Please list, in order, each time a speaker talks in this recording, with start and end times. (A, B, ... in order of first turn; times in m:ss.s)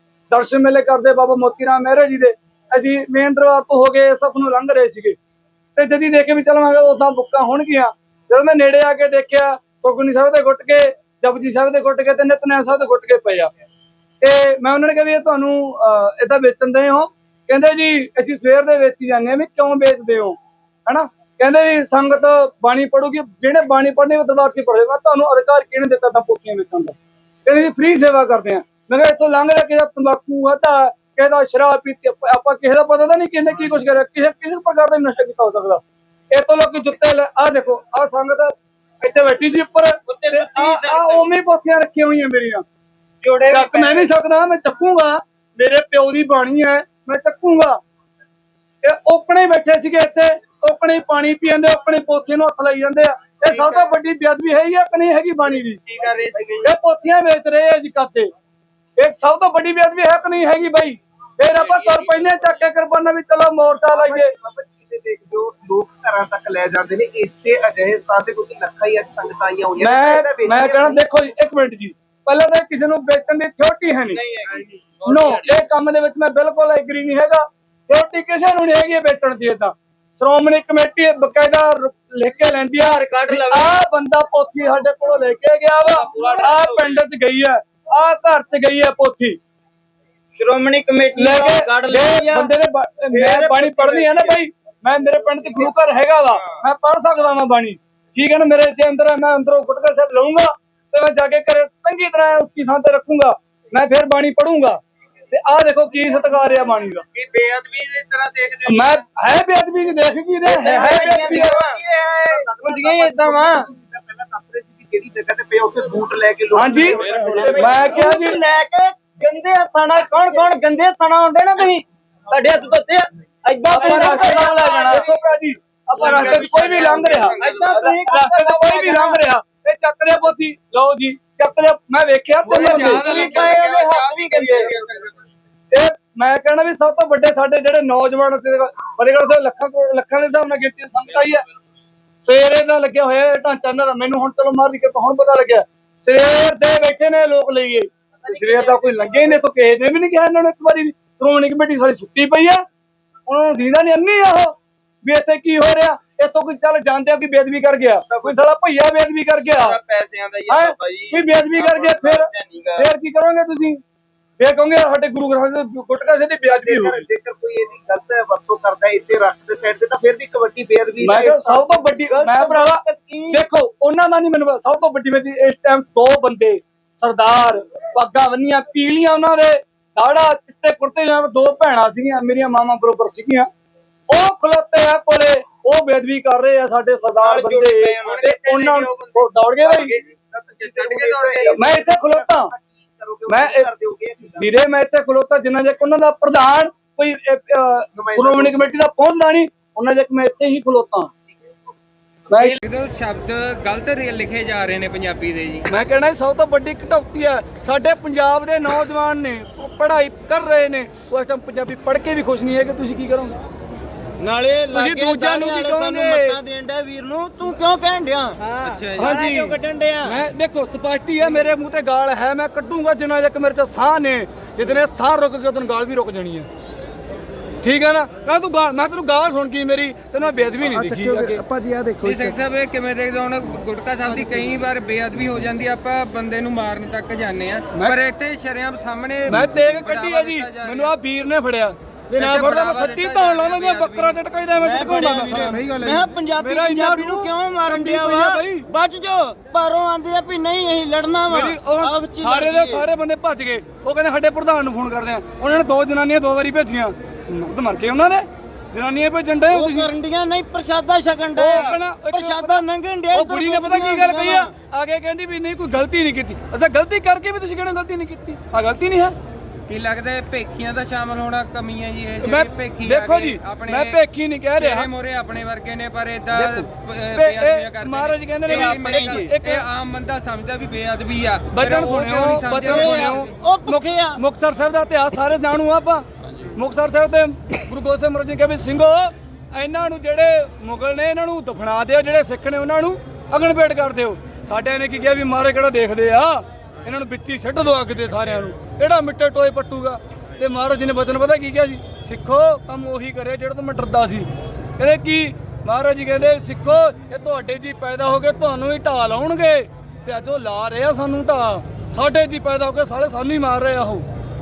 0:00.3-0:05.2 A
0:05.8-0:13.5 A
0:14.2-0:42.6 A
0:40.1-0:41.2 B
0:43.5-0:47.8 A
0:48.8-0:55.8 A
0:56.1-0:56.6 C
0:56.6-0:58.3 A
0:59.0-1:04.3 A
1:03.8-1:11.0 C
1:09.8-1:14.2 A
1:14.4-1:15.4 C
1:15.0-1:29.4 A
1:22.8-1:23.7 B
1:26.1-1:26.5 C
1:30.4-1:32.5 B
1:31.2-1:44.8 A
1:33.1-1:34.3 C
1:45.3-1:47.0 A
1:48.6-1:51.5 A
1:50.5-1:51.8 B
1:50.6-1:58.4 C
1:52.6-1:53.6 B
1:56.5-1:58.4 A
1:57.1-2:01.8 B
2:02.3-2:05.0 B
2:03.7-2:13.3 A
2:03.7-2:05.0 C
2:06.0-2:07.6 D
2:06.0-2:07.7 C
2:07.4-2:09.2 B
2:12.5-2:14.3 D
2:12.5-2:14.7 B
2:12.6-2:14.8 C
2:15.7-2:21.4 A
2:22.2-2:32.6 A
2:28.2-2:29.3 C
2:33.3-2:34.5 A
2:35.0-2:39.8 A
2:38.1-2:38.4 C
2:39.6-2:42.8 B
2:40.5-2:43.8 A
2:44.4-2:47.0 A
2:46.4-2:51.8 C
2:51.0-3:03.5 A
2:52.2-2:53.4 B
3:04.1-3:09.9 A
3:07.2-3:08.2 C
3:08.0-3:09.2 D
3:09.6-3:14.5 C
3:10.6-3:11.5 D
3:11.5-3:12.5 A
3:13.3-3:13.7 A
3:14.4-3:21.1 A
3:17.9-3:18.7 C
3:22.3-3:22.6 A
3:22.3-3:25.7 D
3:25.7-3:33.4 A
3:34.2-3:40.2 B
3:34.7-3:36.4 A
3:38.6-3:39.2 D
3:39.0-3:46.5 A
3:47.6-3:51.4 A
3:50.6-3:52.4 E
3:52.0-4:00.9 D
3:59.3-4:05.6 A
4:02.2-4:04.2 D
4:04.6-4:12.8 B
4:05.5-4:06.1 E
4:06.4-4:08.7 A
4:11.3-4:19.9 A
4:19.5-4:24.5 B
4:21.4-4:29.1 A
4:29.7-4:34.0 D
4:32.2-4:34.9 A
4:34.6-4:43.3 D
4:36.3-4:39.6 A
4:38.4-4:39.3 B
4:41.5-5:04.3 A
4:42.6-4:44.2 B
5:04.8-5:14.0 A